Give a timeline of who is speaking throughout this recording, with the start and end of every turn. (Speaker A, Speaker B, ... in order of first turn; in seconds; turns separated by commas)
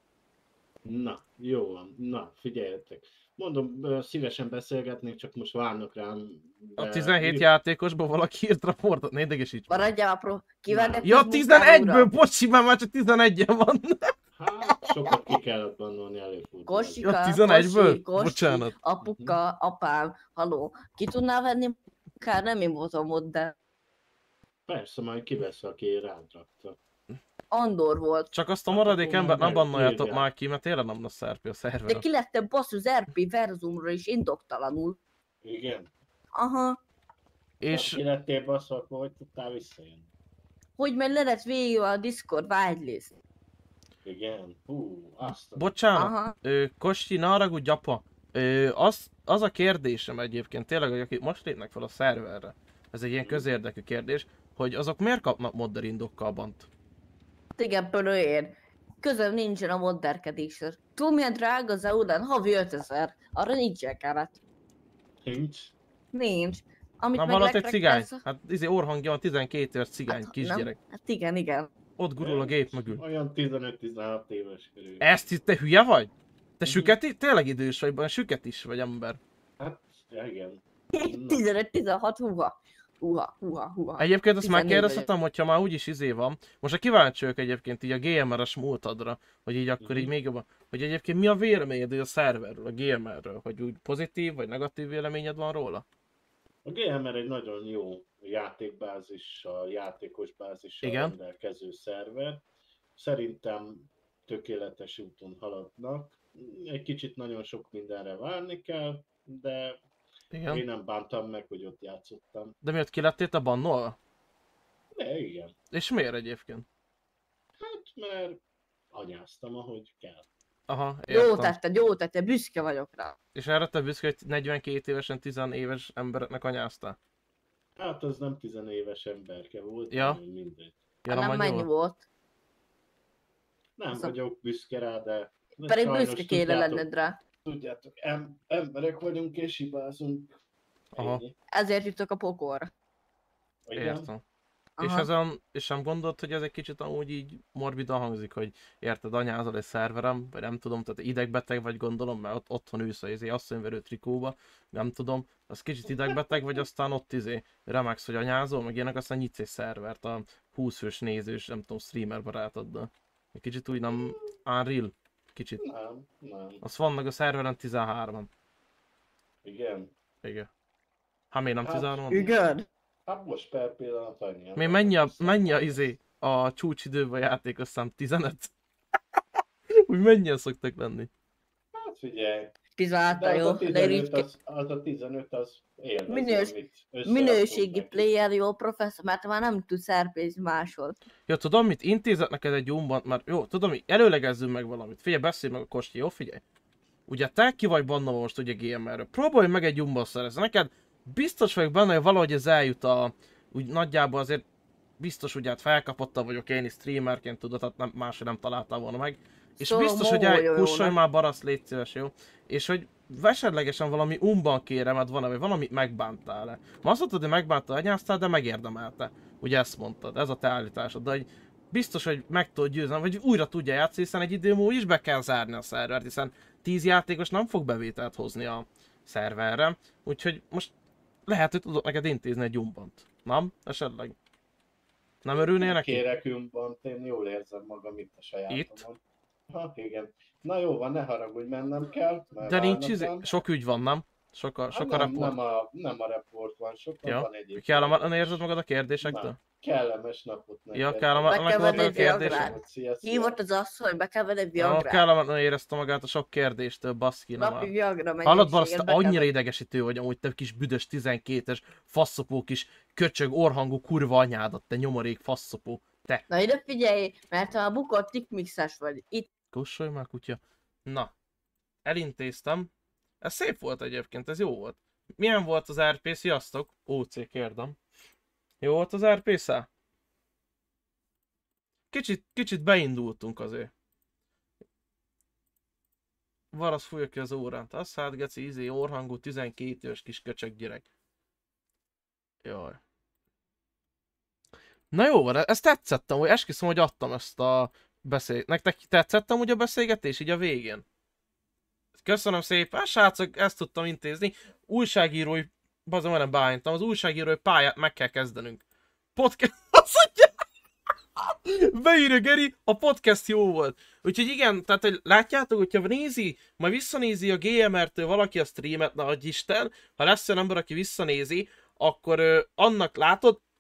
Speaker A: 0.9-7.5, Speaker B: 6.8-9.7, Speaker C: 9.7-12.1, Speaker A: 10.7-11.1, Speaker B: 11.0-14.1, Speaker A: 14.4-17.0, Speaker C: 16.7-23.5, Speaker B: 17.0-18.7, Speaker A: 19.0-19.4, Speaker A: 24.7-26.8, Speaker C: 27.5-28.3, Speaker B: 28.3-32.0, Speaker A: 28.7-30.3, Speaker C: 31.9-35.0, Speaker A: 35.5-35.9, Speaker C: 36.4-36.8, Speaker B: 37.6-38.0, Speaker A: 37.7-40.1, Speaker C: 40.8-43.2, Speaker A: 44.0-45.8, Speaker B: 45.5-56.7, Speaker C: 46.0-46.3, Speaker C: 57.6-64.4, Speaker A: 65.3-65.7, Speaker C: 66.1-68.2, Speaker B: 67.2-70.8, Speaker C: 70.1-71.7, Speaker B: 72.0-73.0, Speaker A: 72.2-75.2, Speaker B: 75.0-79.2, Speaker A: 76.7-77.0, Speaker A: 79.6-81.4, Speaker C: 81.0-85.1, Speaker B: 84.0-95.8, Speaker A: 89.8-90.1, Speaker A: 96.7-102.4, Speaker B: 100.8-101.2, Speaker A: 103.0-109.8, Speaker B: 110.3-110.6, Speaker A: 110.5-112.5, Speaker B: 112.6-114.0, Speaker A: 115.0-115.5, Speaker B: 115.7-116.7, Speaker A: 117.6-118.4, Speaker A: 118.9-120.3, Speaker B: 120.7-121.5, Speaker C: 121.1-123.2, Speaker B: 123.3-127.0, Speaker A: 127.8-130.8, Speaker B: 129.9-130.2, Speaker B: 131.1-131.7, Speaker C: 131.1-132.0, Speaker A: 133.8-136.8, Speaker C: 135.7-137.2, Speaker A: 137.4-140.3, Speaker A: 140.9-141.3, Speaker B: 141.0-141.2, Speaker C: 141.5-142.7, Speaker A: 143.7-144.1, Speaker B: 143.8-144.2, Speaker C: 144.8-145.1, Speaker B: 144.8-165.6, Speaker A: 155.9-156.6, Speaker A: 165.6-166.6, Speaker B: 166.6-168.3, Speaker A: 169.4-169.9, Speaker B: 170.2-170.5, Speaker B: 171.3-172.3, Speaker A: 171.6-172.6, Speaker A: 173.1-175.9, Speaker B: 174.6-178.5, Speaker B: 179.9-181.1, Speaker A: 181.8-182.5, Speaker C: 182.8-184.3, Speaker A: 183.1-188.1, Speaker C: 186.1-186.5, Speaker C: 187.1-191.0, Speaker B: 191.3-196.4, Speaker B: 197.1-204.4, Speaker B: 205.0-230.7, Speaker C: 209.6-211.0, Speaker B: 231.3-234.2, Speaker B: 235.2-236.1, Speaker A: 235.3-239.0, Speaker B: 238.5-238.8, Speaker A: 239.5-243.4, Speaker B: 242.4-245.4, Speaker A: 244.7-248.4, Speaker B: 247.1-249.4, Speaker A: 249.0-253.4, Speaker B: 250.7-252.5, Speaker C: 251.2-255.1, Speaker B: 254.6-257.7, Speaker C: 257.4-259.3, Speaker B: 258.2-266.2, Speaker C: 266.3-269.3, Speaker B: 269.5-271.1, Speaker B: 271.9-272.7, Speaker B: 273.2-277.8, Speaker B: 278.6-279.7, Speaker B: 281.9-283.7, Speaker B: 286.5-290.9, Speaker B: 292.4-292.8, Speaker B: 294.9-300.8, Speaker B: 302.0-308.6, Speaker B: 309.2-310.3, Speaker B: 311.2-323.4